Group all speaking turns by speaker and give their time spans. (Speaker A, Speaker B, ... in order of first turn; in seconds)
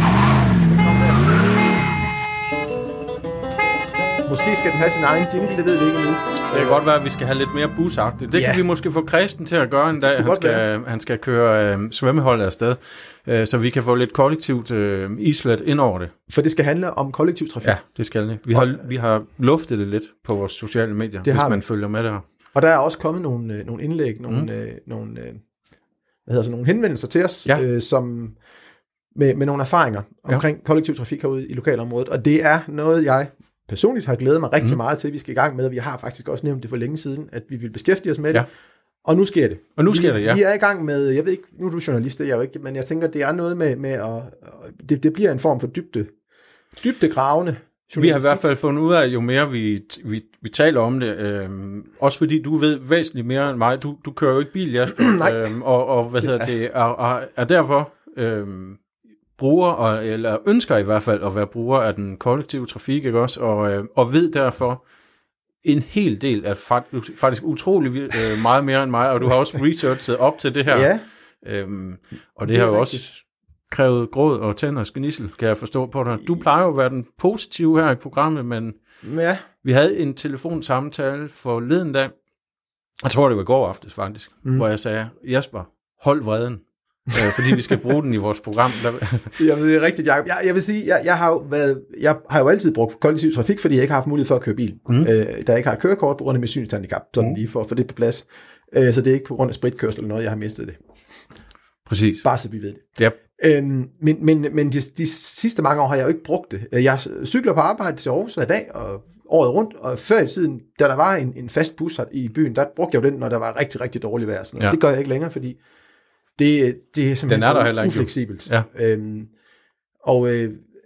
Speaker A: 0.7-1.5, 4.2-6.8, 8.3-8.6, 9.9-10.6, 16.3-17.8, 18.5-18.9, 21.2-21.6, 22.5-25.4, 26.2-28.4, 29.1-38.5, 39.0-46.1, 46.8-48.4, 54.9-55.5, 56.2-56.5, 70.7-71.0, 72.5-73.0, 79.0-79.4, 89.4-100.8, 102.2-115.6, 116.4-119.3, 120.0-120.7
Speaker B: 6.5-16.1, 17.6-22.2, 39.8-40.4, 48.0-64.8, 65.6-79.1, 79.6-82.1, 83.0-89.3, 101.8-102.3, 117.3-118.7